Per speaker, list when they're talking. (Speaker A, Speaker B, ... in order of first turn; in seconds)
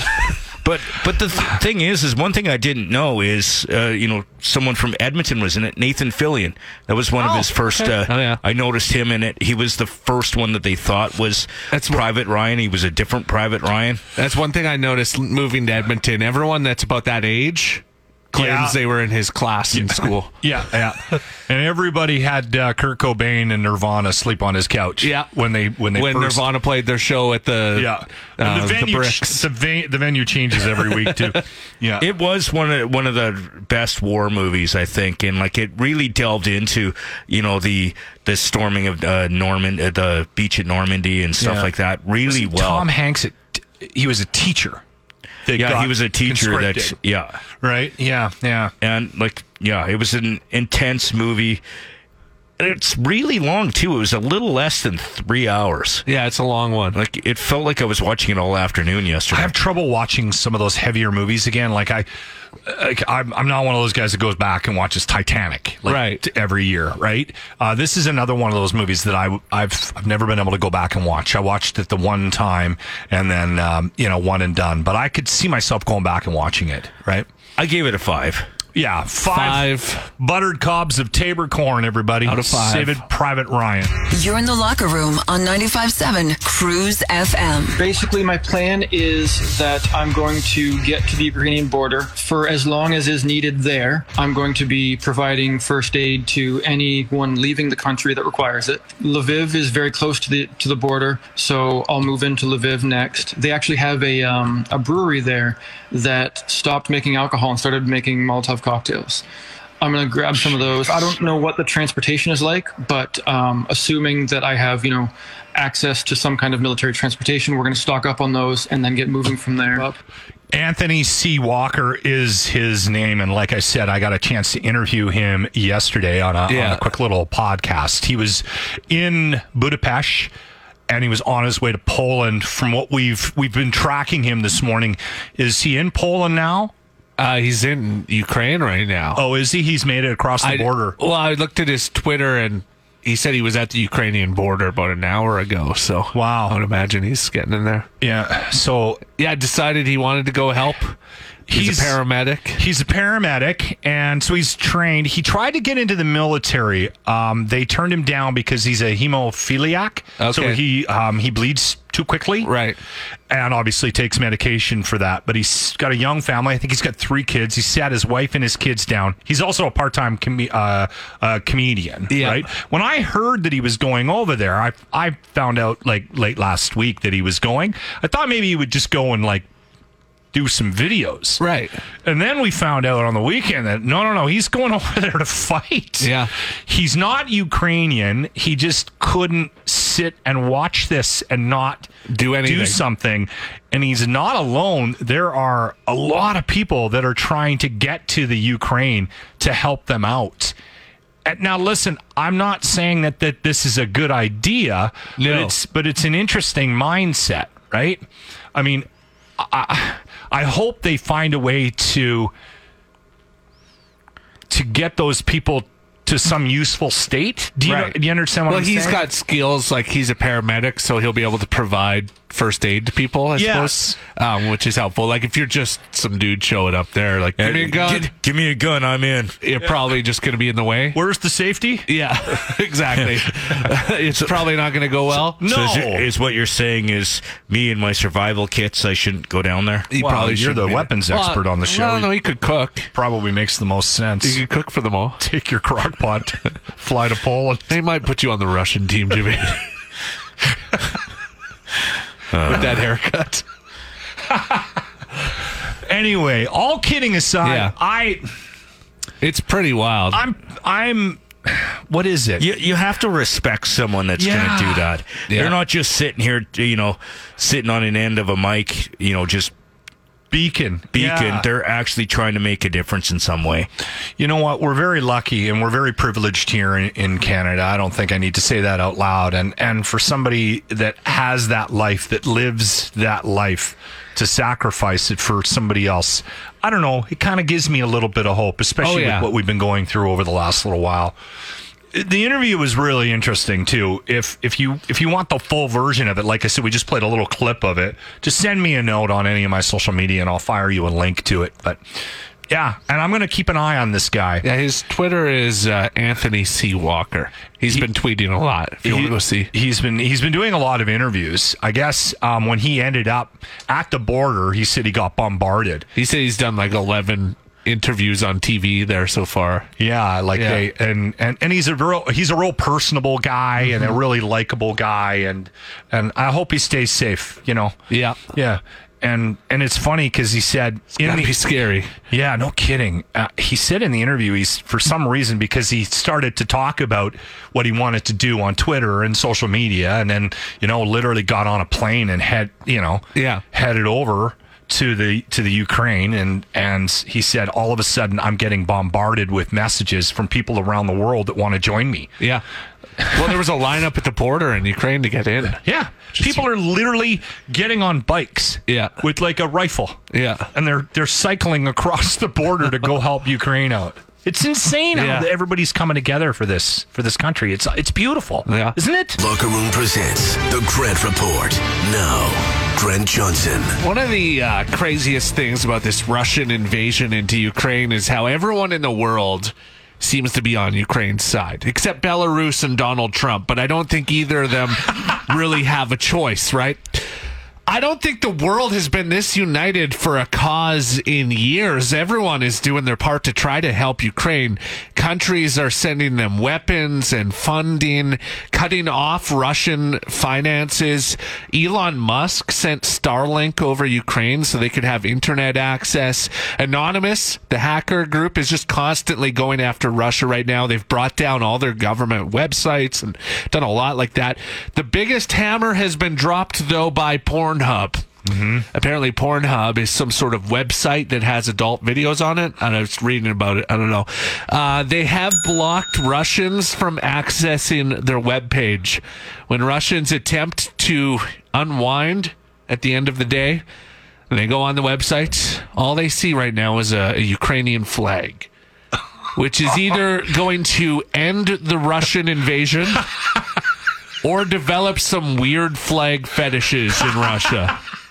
Speaker A: 0.6-14.0, 32.0-42.9, 45.5-47.4, 48.8-51.6, 52.6-56.0, 56.9-59.5, 77.6-78.5, 227.4-229.4, 235.4-239.9, 252.3-252.8, 262.4-269.5, 270.9-273.7
Speaker B: 7.9-8.4, 11.7-12.0, 14.2-20.3, 25.0-25.3, 25.9-29.5, 56.1-57.0, 65.9-66.2, 79.3-80.1, 82.2-83.0, 126.5-126.9, 137.2-139.2, 140.4-147.9, 149.2-151.0, 151.5-152.6, 160.2-160.6, 162.4-162.8, 172.1-172.5, 181.4-181.8, 186.0-186.3, 192.1-192.8, 205.2-205.5, 217.7-218.0, 218.5-228.1, 229.4-231.0, 231.9-235.4, 239.9-242.9, 244.2-245.2, 247.7-249.6, 252.4-253.4, 257.4-257.8, 259.2-260.2, 265.3-265.6, 288.8-289.3, 304.4-309.5, 315.9-319.7, 320.4-320.6, 327.9-328.2, 331.0-331.9, 343.1-343.4, 353.0-355.6, 358.7-359.0, 360.1-360.5, 364.9-365.3, 368.5-368.8, 373.8-387.0, 387.7-418.1, 418.7-433.6, 434.3-438.5, 439.4-443.1, 444.2-447.8
Speaker C: 18.4-18.8, 19.7-26.4, 27.8-32.1, 41.4-41.7, 42.2-44.8, 45.5-47.0, 47.6-48.7, 59.3-62.1, 62.6-77.3, 78.7-83.9, 120.5-130.3, 130.9-136.7, 139.2-141.0, 146.1-146.6, 148.0-149.0, 151.5-152.0, 152.6-162.5, 163.3-179.5, 180.3-181.4, 182.0-186.1, 186.7-191.9, 192.4-200.6, 201.2-208.9, 209.4-212.3, 214.5-219.1, 223.3-224.0, 230.9-231.9, 235.4-236.1, 239.9-242.1, 242.9-244.4, 245.2-247.7, 254.3-254.8, 255.8-258.3, 260.1-262.4, 264.2-264.9, 270.3-271.5, 274.2-291.2, 291.9-301.8, 302.5-304.4, 308.8-315.9, 319.8-327.8, 328.3-331.4, 332.1-352.1, 355.6-360.0, 360.5-369.2, 418.2-418.7
Speaker D: 84.1-87.8
Speaker E: 87.8-109.2, 109.8-120.0
Speaker F: 369.2-373.8